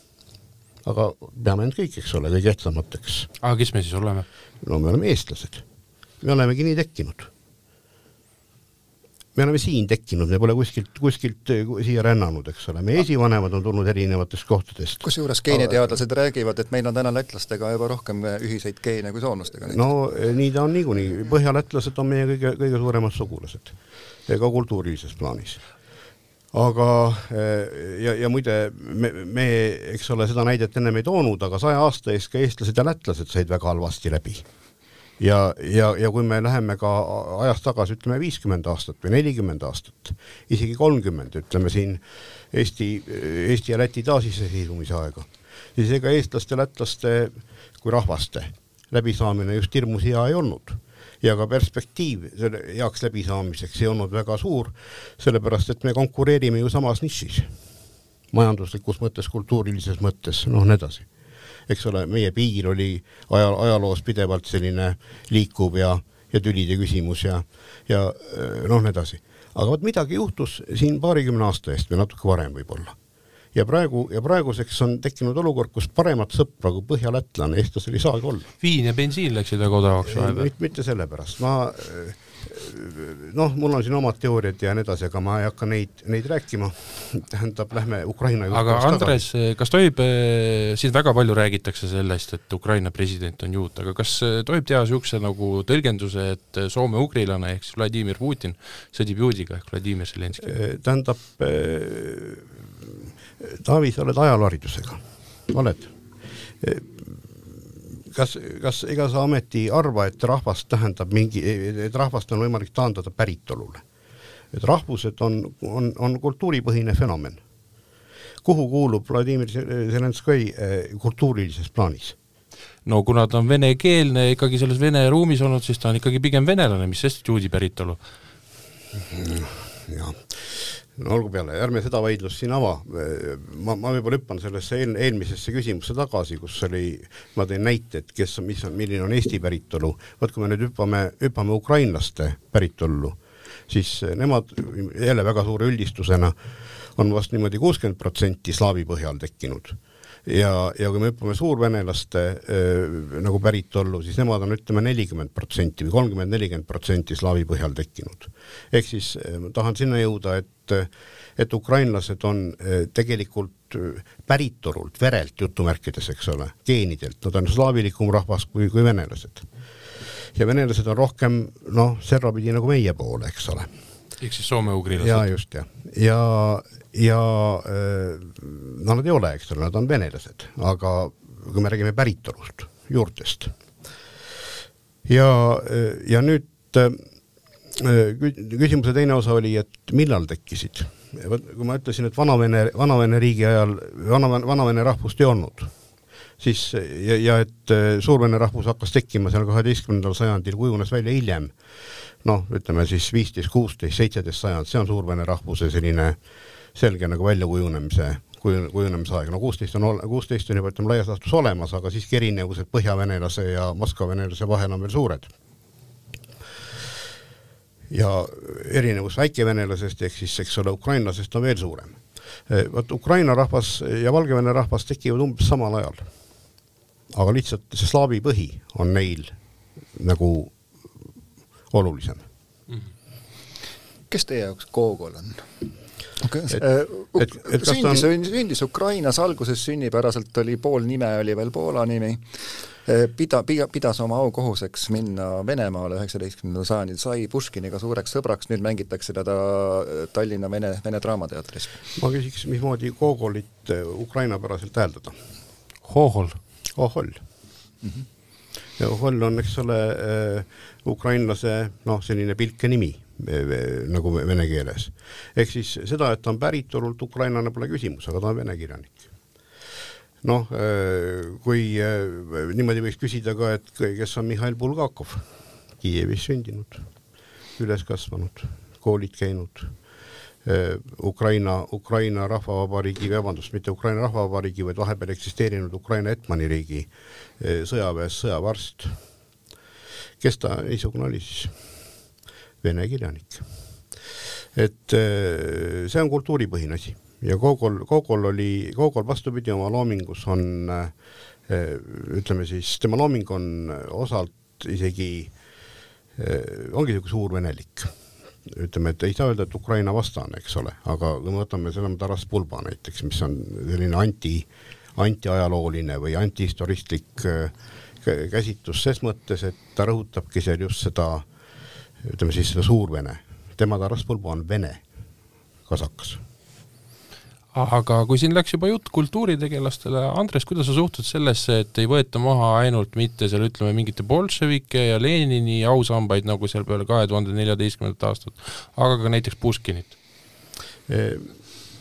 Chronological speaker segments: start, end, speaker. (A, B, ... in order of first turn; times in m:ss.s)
0:00.8-0:03.3 A
0:03.4-0:04.2 B
0:04.6-0:05.6 A
0:06.2-0:07.3 A
0:09.4-0:15.8 A
0:15.0-0:19.9 C
0:19.7-0:23.7 A
0:24.3-0:25.6 A
0:26.5-0:34.4 A
0:35.2-0:57.5 A
0:58.3-1:01.0 A
1:01.7-1:13.0 A
1:13.5-1:18.5 A
1:18.6-1:20.5 B
1:20.0-1:29.2 A
1:28.5-1:40.5 B
1:40.4-1:45.9 A
1:46.6-1:53.8 A
1:54.5-1:57.4 A
1:58.4-2:02.2 A
2:02.8-2:08.0 B
2:09.1-2:26.3 A
2:27.0-2:49.4 A
2:50.3-2:53.7 A
2:54.2-2:55.3 B
2:54.9-3:03.5 A
3:05.0-3:07.0 A
3:07.7-3:15.7 A
3:16.4-3:21.5 A
3:22.2-3:26.2 A
3:26.7-3:35.3 A
3:37.9-3:42.0 A
3:42.5-3:46.0 A
3:47.1-3:49.3 A
3:49.9-3:50.5 A
3:51.7-3:52.2 A
3:54.1-3:55.6 C
3:56.2-4:11.8 C
3:57.2-3:58.0 A
4:12.0-4:15.2 A
4:15.8-4:16.4 B
4:16.7-4:17.2 A
4:18.8-4:29.0 A
4:30.2-4:35.2 A
4:35.8-4:36.8 A
4:37.6-4:39.7 A
4:40.4-4:46.9 A
4:47.4-4:49.0 A
4:50.2-4:51.5 A
4:52.6-4:53.4 A
4:54.5-5:00.9 A
5:01.5-5:05.3 A
5:06.2-5:07.9 A
5:08.4-5:21.2 A
5:22.0-5:24.8 A
5:25.7-5:26.2 A
5:27.5-5:40.0 B
5:40.9-5:41.3 A